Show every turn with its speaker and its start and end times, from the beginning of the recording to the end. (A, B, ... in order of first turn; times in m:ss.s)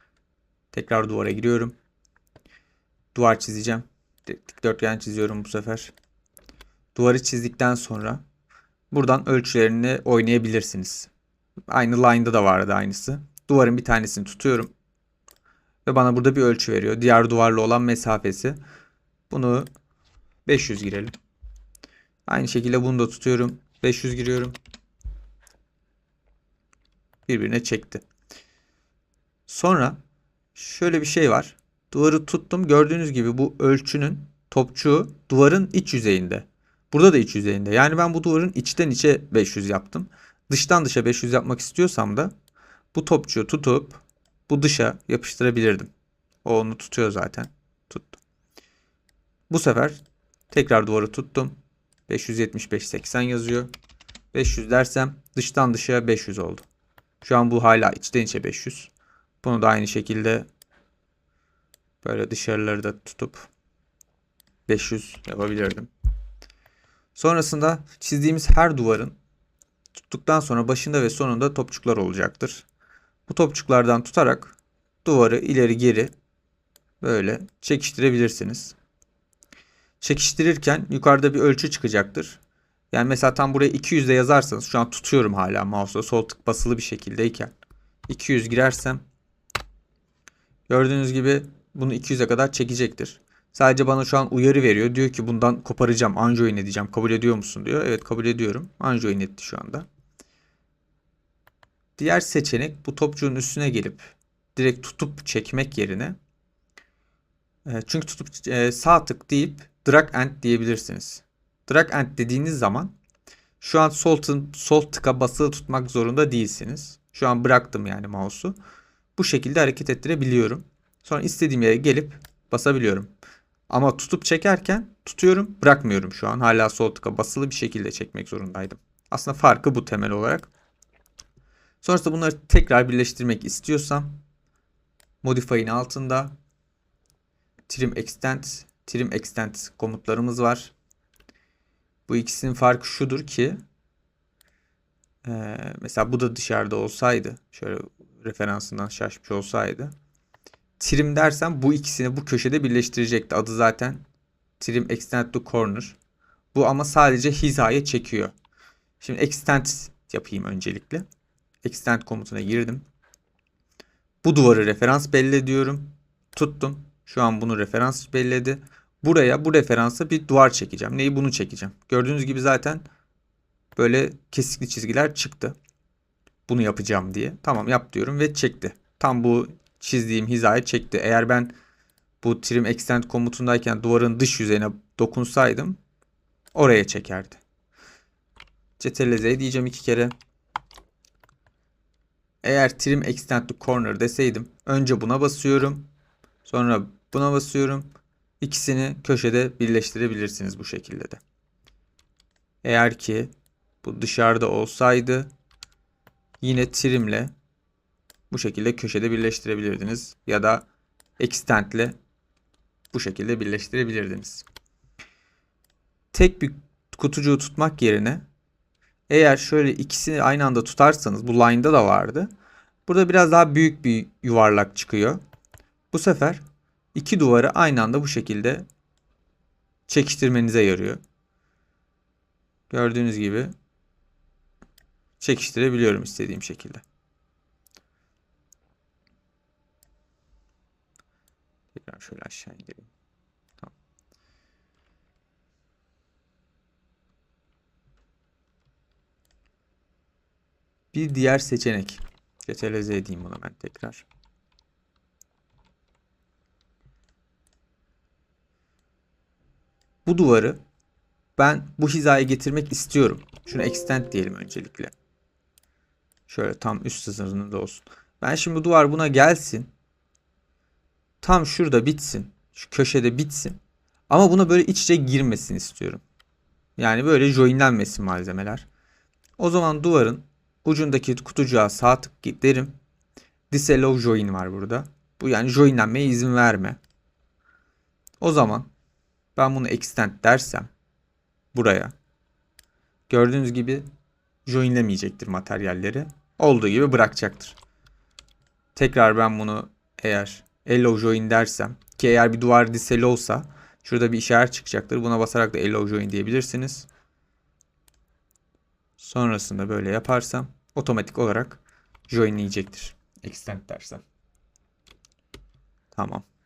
0:00.7-0:01.7 A
0:03.1-0:05.9 A
0:07.0-0:08.2 A
0:08.9-0:11.1 A
0:11.7-0:14.7 A
0:15.9-0:18.6 A
0:19.3-0:19.7 A
0:20.5-0:21.1 A
0:22.3-0:24.6 A
0:27.3-0:28.0 A
0:29.5-0:30.0 A
0:30.6-0:42.3 A
0:42.9-0:45.9 A
0:46.4-0:48.2 A
0:49.5-0:51.6 A
0:52.1-0:53.7 A
0:54.3-0:56.6 A
0:57.2-0:58.9 A
0:59.4-1:00.5 A
1:02.0-1:03.5 A
1:04.7-1:05.9 A
1:07.2-1:09.2 A
1:10.0-1:12.7 A
1:13.3-1:16.1 A
1:17.0-1:18.8 A
1:20.0-1:22.4 A
1:22.9-1:27.5 A
1:28.1-1:29.0 A
1:30.7-1:39.9 A
1:42.0-1:46.2 A
1:47.7-1:52.9 A
1:53.6-1:58.6 A
1:59.2-2:03.1 A
2:03.7-2:10.5 A
2:11.8-2:14.2 A
2:15.2-2:16.3 A
2:17.7-2:20.7 A
2:22.1-2:23.6 A
2:25.2-2:29.9 A
2:30.8-2:34.0 A
2:34.6-2:36.0 A
2:36.5-2:38.3 A
2:39.0-2:41.0 A
2:41.6-2:42.8 A
2:44.2-2:52.8 A
2:53.8-2:55.6 A
2:56.5-3:01.5 A
3:02.2-3:05.8 A
3:06.5-3:07.4 A
3:08.8-3:10.1 A
3:12.4-3:15.9 A
3:16.4-3:17.9 A
3:18.4-3:21.2 A
3:22.6-3:23.3 A
3:23.8-3:25.3 A
3:26.4-3:27.3 A
3:28.3-3:30.6 A
3:31.2-3:32.0 A
3:32.9-3:34.4 A
3:36.1-3:38.2 A
3:39.1-3:42.3 A
3:42.9-3:45.2 A
3:45.9-3:46.4 A
3:47.0-3:48.6 A
3:49.9-3:51.0 A
3:52.7-3:53.5 A
3:55.2-3:56.8 A
4:01.8-4:02.9 A
4:10.9-4:14.1 A
4:20.1-4:20.6 A
4:21.4-4:24.9 A
4:26.3-4:29.7 A
4:31.2-4:33.6 A
4:34.1-4:36.0 A
4:36.8-4:38.7 A
4:39.4-4:42.8 A
4:43.5-4:46.8 A
4:48.2-4:48.7 A
4:49.4-4:50.7 A
4:51.5-4:51.9 A
4:53.1-4:53.8 A
4:54.5-4:57.6 A
4:58.8-5:06.9 A
5:09.0-5:14.0 A
5:16.0-5:16.2 A